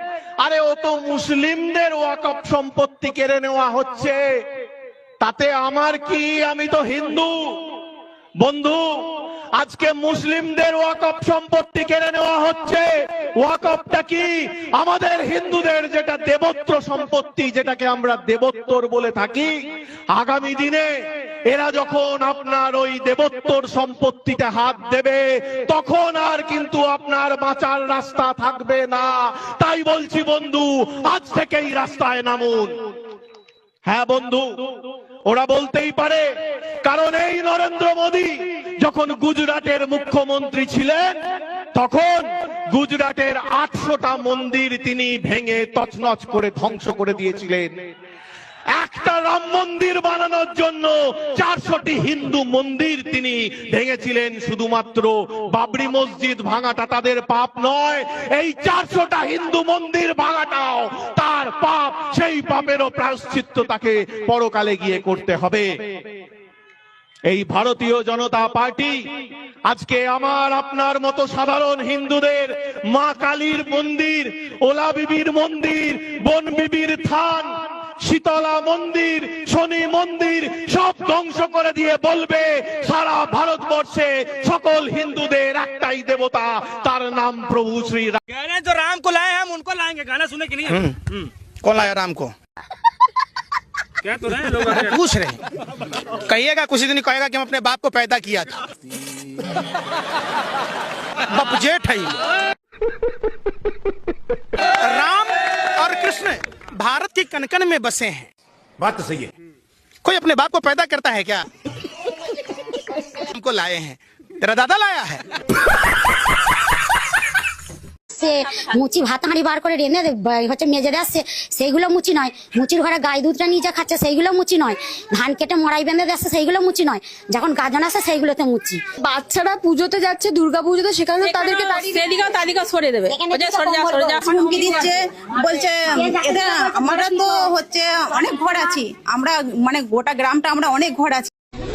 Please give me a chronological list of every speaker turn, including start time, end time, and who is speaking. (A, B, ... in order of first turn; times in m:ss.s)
0:00.4-0:04.2 A
0:05.2-0:07.3 A
0:08.4-0:08.8 A
0:09.6-0:19.5 A
0:20.1-0:20.9 A
0:21.5-0:32.8 A
0:33.9-0:34.6 A
0:35.3-0:36.3 A
0:36.8-0:41.2 A
0:41.7-0:47.7 A
0:48.7-1:05.7 A
1:07.3-1:09.0 A
1:09.7-1:28.2 A
1:28.3-1:30.6 B
1:28.8-1:29.3 C
1:30.6-1:31.0 C
1:31.6-1:32.4 C
1:34.4-1:35.4 C
1:34.4-1:34.7 B
1:36.3-1:38.6 C
1:41.3-1:42.2 C
1:44.8-1:48.3 C
1:48.8-1:49.2 C
1:50.0-1:51.5 C
1:53.2-1:55.2 C
1:58.1-2:08.8 D
2:09.1-2:11.6 E
2:11.2-2:15.0 F
2:11.7-2:12.0 D
2:13.1-2:14.7 D
2:14.2-2:21.3 G
2:16.0-2:17.4 D